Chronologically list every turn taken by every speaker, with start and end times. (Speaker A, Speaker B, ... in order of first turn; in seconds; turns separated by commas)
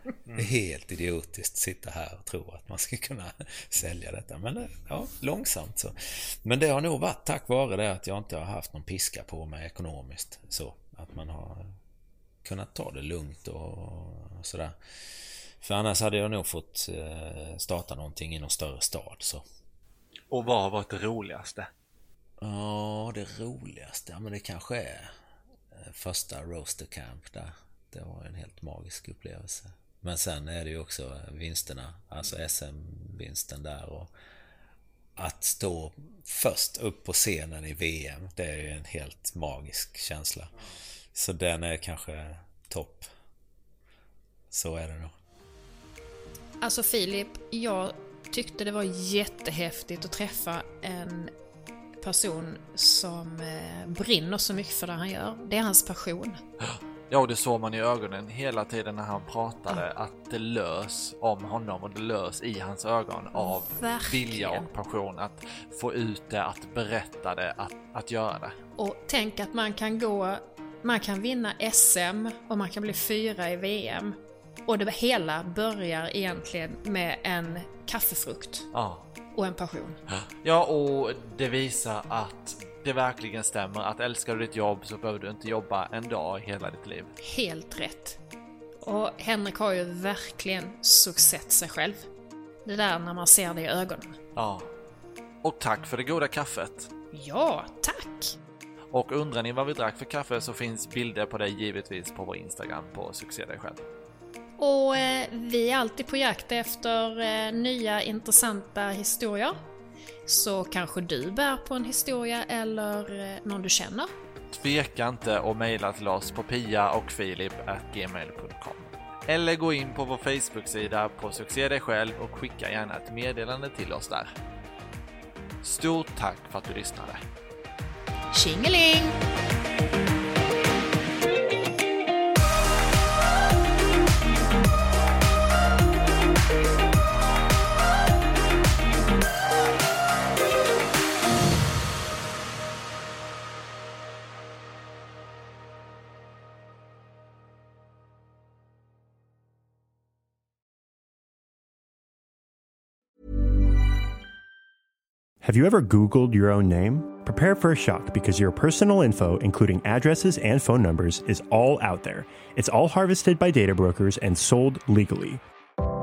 Speaker A: 0.3-11.7, Speaker A: 12.4-14.8, Speaker A: 15.6-19.4, Speaker B: 20.3-21.7, Speaker A: 22.4-25.1, Speaker A: 25.7-34.1, Speaker A: 35.2-40.5, Speaker A: 41.1-43.1, Speaker A: 44.5-45.1, Speaker C: 46.6-51.3, Speaker C: 52.0-56.4, Speaker B: 56.6-68.6, Speaker C: 63.3-64.7, Speaker C: 68.8-78.7, Speaker B: 78.7-79.0, Speaker C: 79.3-80.0, Speaker B: 80.1-87.1, Speaker C: 87.2-88.2, Speaker C: 88.8-92.1, Speaker C: 92.6-94.2, Speaker B: 94.3-94.7, Speaker B: 95.4-96.9, Speaker C: 97.1-98.3, Speaker B: 98.9-103.8, Speaker C: 104.6-109.5, Speaker C: 110.2-114.1, Speaker B: 114.5-124.3, Speaker B: 125.6-127.2, Speaker C: 128.3-129.2, Speaker D: 155.4-165.4